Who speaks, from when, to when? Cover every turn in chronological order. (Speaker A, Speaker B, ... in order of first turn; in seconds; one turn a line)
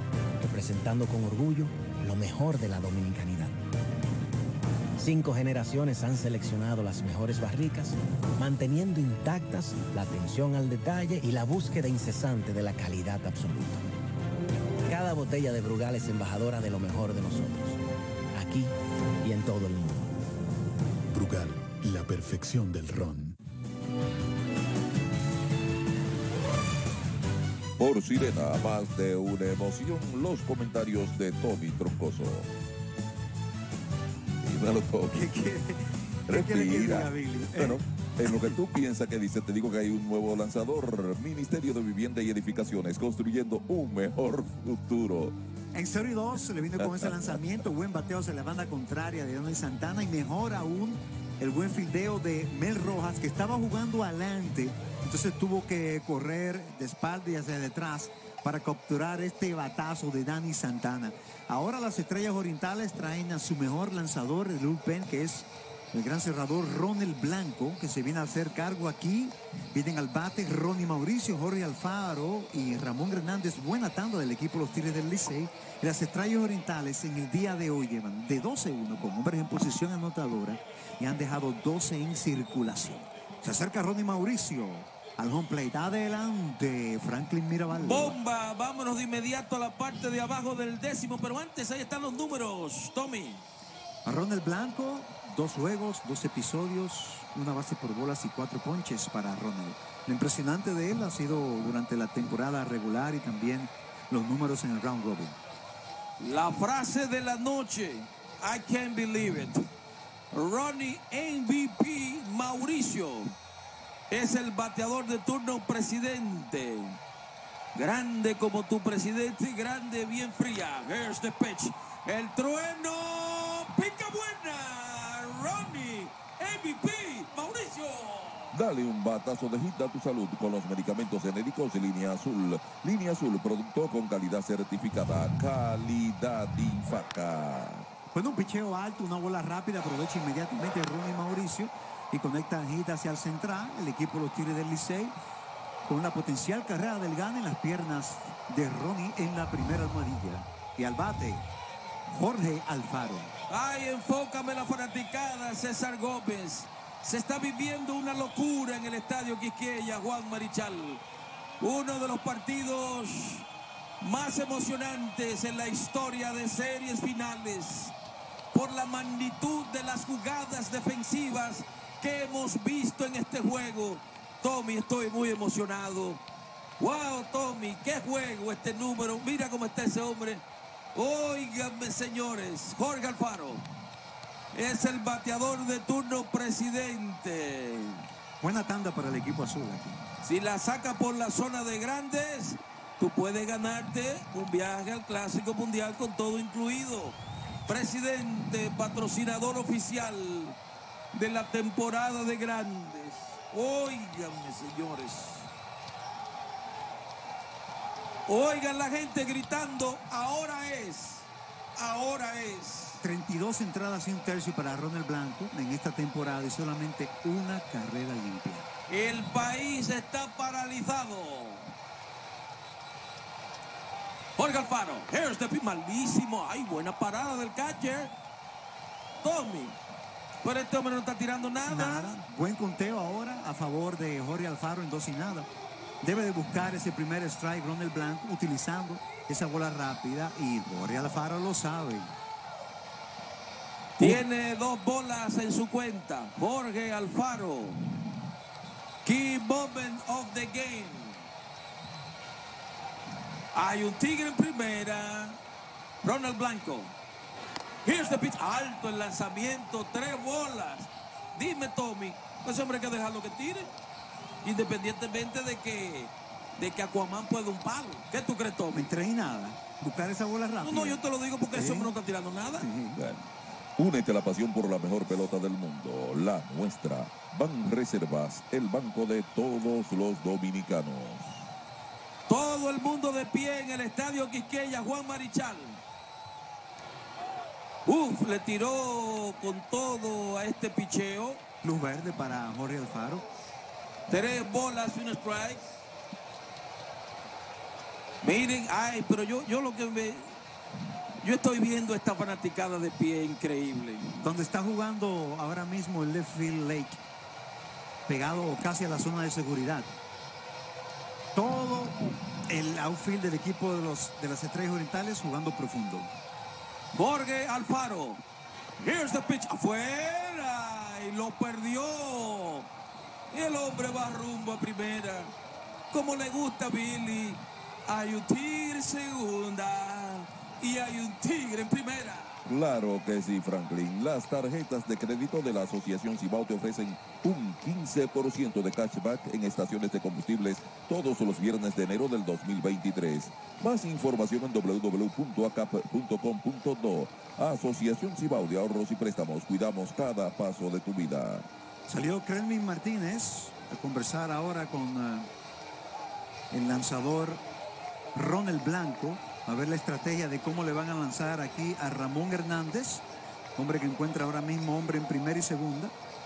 Speaker A: 0.4-3.6
Speaker A: 5.0-13.8
Speaker A: 14.9-17.8
Speaker A: 18.3-20.1
Speaker B: 21.1-23.4
Speaker C: 27.8-32.5
Speaker C: 34.4-35.3
Speaker D: 35.1-38.6
Speaker C: 36.3-45.3
Speaker D: 45.7-88.2
Speaker C: 46.8-47.1
Speaker E: 87.8-93.4
Speaker D: 94.0-105.4
Speaker E: 106.2-109.7
Speaker E: 110.3-113.3
Speaker E: 114.1-117.0
Speaker E: 117.8-128.5
Speaker C: 128.5-137.9
Speaker D: 138.1-145.2
Speaker D: 145.9-151.5
Speaker D: 152.1-153.3
Speaker E: 153.5-161.0
Speaker E: 161.6-163.5
Speaker E: 164.0-167.9
Speaker E: 168.5-176.2
Speaker E: 176.8-180.4
Speaker E: 180.9-183.7
Speaker E: 184.5-188.0
Speaker D: 188.4-190.0
Speaker E: 190.2-200.6
Speaker E: 201.1-205.5
Speaker E: 208.3-213.0
Speaker D: 213.0-218.7
Speaker E: 218.9-221.7
Speaker E: 224.4-228.1
Speaker E: 229.2-229.8
Speaker E: 230.4-232.2
Speaker D: 231.7-235.5
Speaker D: 236.0-242.1
Speaker E: 244.0-247.8
Speaker E: 249.0-251.2
Speaker E: 253.5-255.4
Speaker E: 256.0-256.9
Speaker E: 257.9-263.7
Speaker E: 264.4-268.9
Speaker D: 268.7-271.0
Speaker E: 270.6-272.7
Speaker D: 271.5-271.9
Speaker D: 272.5-273.0
Speaker C: 273.0-281.5
Speaker E: 282.3-285.8
Speaker E: 287.9-291.4
Speaker D: 291.6-293.3
Speaker E: 294.1-295.7
Speaker E: 298.2-300.4
Speaker E: 301.2-304.2
Speaker D: 304.2-307.0
Speaker D: 308.1-309.9
Speaker D: 311.4-316.1
Speaker E: 316.9-318.2
Speaker E: 318.8-322.7
Speaker E: 323.3-325.3
Speaker E: 325.9-332.4
Speaker C: 332.5-351.5
Speaker D: 351.9-355.3
Speaker D: 356.5-357.4
Speaker D: 358.1-363.0
Speaker D: 363.6-365.9